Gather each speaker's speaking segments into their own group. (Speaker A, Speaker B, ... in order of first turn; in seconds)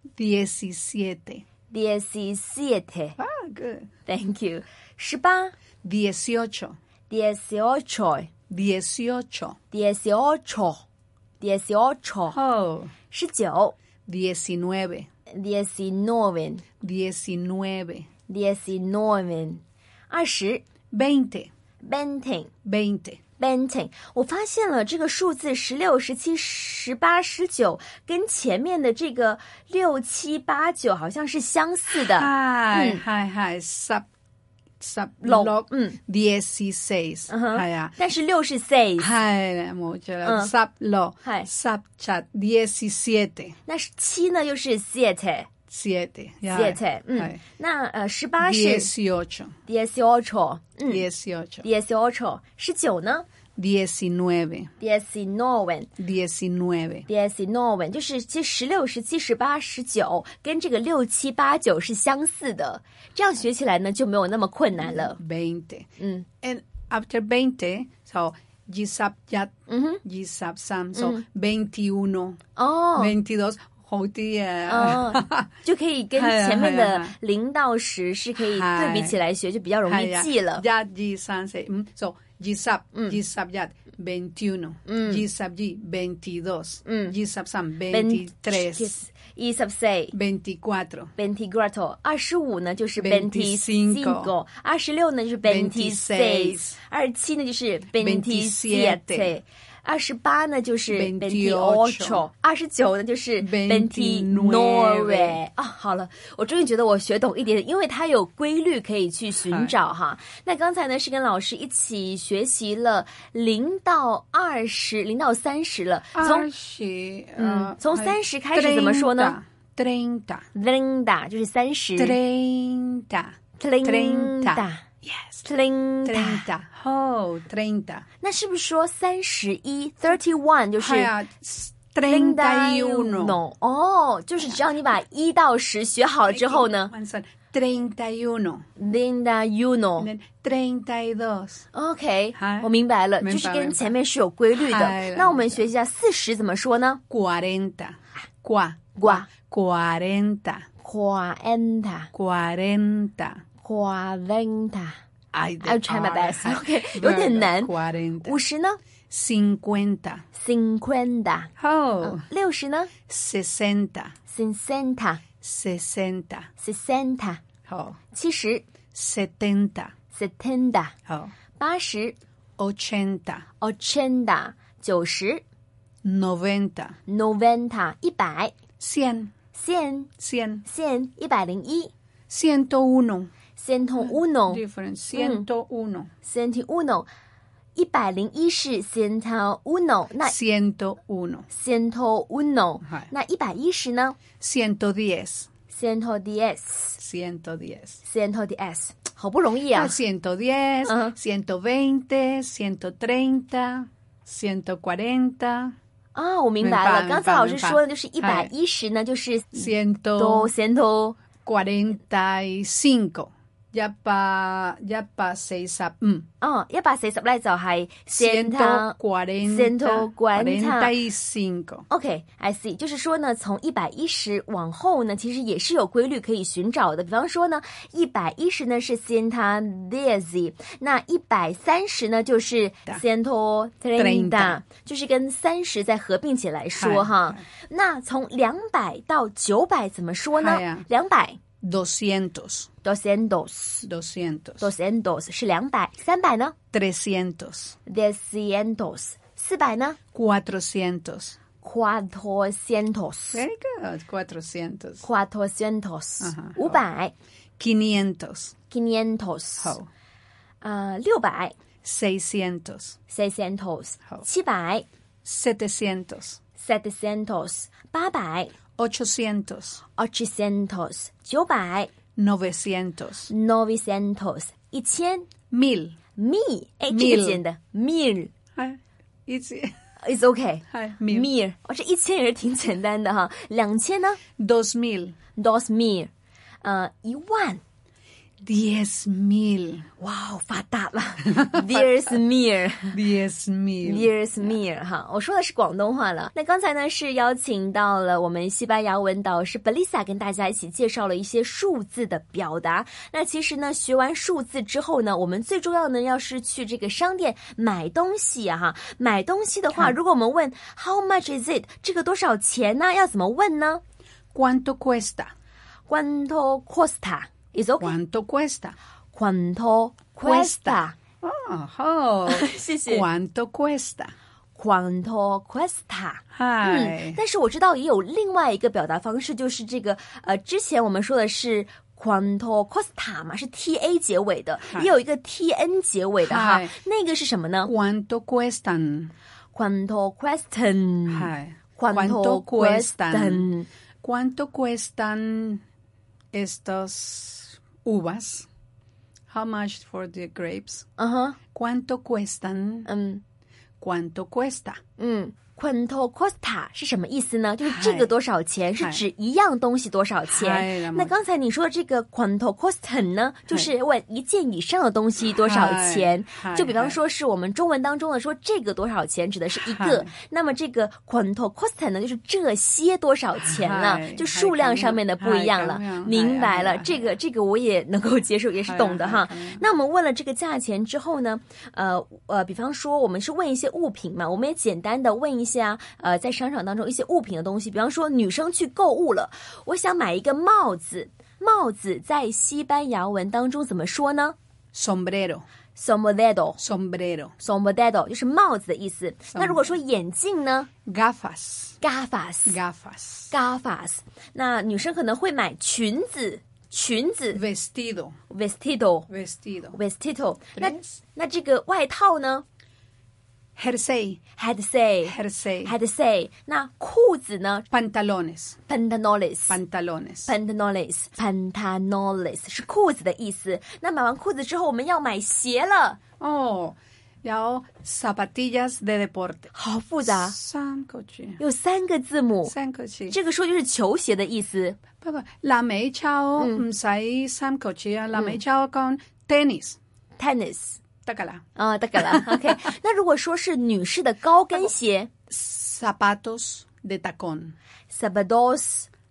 Speaker A: 0.2-1.4, 3.2-3.9, 5.8-6.8, 8.5-9.6, 12.3-12.9, 14.1-15.1, 16.8-18.1, 20.9-21.5, 22.6-23.2, 31.9-34.0, 34.8-38.0, 39.0-43.6, 45.7-47.4, 48.4-49.6, 50.9-51.7, 53.6-54.7, 56.0-57.1, 64.8-65.9, 66.4-69.5, 70.0-72.4, 73.0-75.5, 76.2-77.2, 78.4-79.2, 79.8-89.0, 90.1-91.1, 93.0-94.3, 95.4-96.8, 98.0-99.3, 100.9-102.3, 103.4-105.4, 109.4-109.8, 116.1-120.5, 122.0-125.5, 126.0-128.1, 130.8-133.4, 136.3-138.7, 140.0-141.6, 142.3-143.9, 144.6-145.7, 147.1-150.7, 152.1-153.4, 155.3-158.4, 159.1-160.2, 161.6-162.3, 163.1-164.1, 165.4-166.5, 167.7-168.0, 168.9-169.9, 171.1-171.3, 172.6-173.4, 176.0-177.0, 178.8-179.3, 180.2-180.7, 182.3-183.3, 184.0-186.1, 190.2-191.5, 192.8-193.1, 194.4-195.5, 197.0-198.0, 199.7-205.8, 206.6-208.5, 209.5-210.5, 211.4-216.3, 218.1-221.9, 233.9-234.6, 236.8-237.4, 240.3-240.9, 241.6-242.7, 243.8-244.7, 246.7-247.8, 250.1-251.4, 253.3-255.1, 256.2-256.8, 257.6-258.6, 259.6-259.9, 261.8-263.0, 265.2-266.4, 268.8-269.8, 272.2-273.3, 275.5-276.0, 276.9-277.4, 278.6-279.8, 280.7-281.3, 284.4-285.2, 288.4-289.9, 291.4-291.9, 292.9-294.5, 314.3-315.3, 317.8-318.8, 320.2-324.1, 326.3-327.2, 334.7-334.9, 336.2-336.8, 337.7-339.1, 341.1-343.5, 344.0-345.6, 346.3-348.5, 349.3-350.9, 351.6-352.9, 353.8-354.8, 357.6-358.1, 358.8-359.1, 360.3-361.1, 365.3-367.0, 369.6-370.1, 373.4-377.1, 378.6-379.6, 394.7-395.5, 396.6-397.4, 399.3-399.8, 400.9-401.8, 402.5-403.3, 407.3-408.2, 409.1-409.8, 410.6-411.0, 413.6-414.2, 415.1-415.8, 417.7-418.6, 419.5-420.3, 426.2-431.4, 432.4-433.2, 435.0-439.8, 441.1-442.5, 445.3-447.6
Speaker B: 1.7-3.2, 4.1-5.5, 7.1-8.3, 9.7-10.8, 11.4-12.4, 13.1-13.7, 15.3-16.6, 18.3-20.6, 21.8-22.5, 23.4-33.0, 35.2-36.0, 37.3-39.1, 40.2-40.5, 41.2-41.5, 43.7-45.5, 46.5-48.9, 49.7-51.0, 51.6-53.2, 54.8-55.9, 57.1-65.2, 66.0-66.3, 69.7-70.0, 70.9-71.2, 72.6-73.1, 74.7-80.6, 84.9-85.2, 86.8-87.2, 87.9-90.1, 91.2-116.5, 117.4-119.4, 120.5-122.2, 123.6-124.8, 125.5-126.5, 128.2-131.1, 132.1-136.9, 138.8-140.1, 141.7-147.0, 149.0-149.3, 150.8-152.1, 153.6-155.0, 155.6-158.8, 160.3-161.5, 162.0-162.9, 164.3-165.2, 166.6-167.4, 168.1-168.6, 170.1-170.9, 171.6-172.2, 173.6-175.4, 177.1-178.5, 179.5-180.1, 180.7-181.9, 183.6-184.6, 185.1-185.5, 186.2-187.1, 187.8-190.3, 191.5-194.2, 195.7-197.0, 198.0-200.0, 200.9-201.2, 206.2-211.2, 216.4-221.0, 221.9-241.4, 242.8-243.9, 244.6-246.6, 247.9-250.0, 251.6-253.4, 255.0-257.1, 258.7-259.8, 260.6-261.6, 263.1-264.9, 266.6-268.5, 270.0-271.9, 273.3-275.3, 276.2-278.3, 280.0-284.2, 285.4-286.1, 286.6-287.6, 290.0-293.0, 293.8-313.8, 315.9-317.9, 319.1-321.0, 322.3-323.1, 324.6-337.7, 339.5-343.7, 351.0-351.4, 352.9-353.2, 355.0-394.4, 395.8-396.6, 397.4-400.7, 401.8-402.6, 403.3-407.4, 408.3-409.1, 409.7-412.4, 414.4-417.6, 418.7-419.6, 420.3-426.0, 429.6-430.3, 431.4-432.5, 433.1-434.8, 436.4-436.6, 438.1-438.4, 440.2-440.8, 441.6-445.1, 447.9-448.9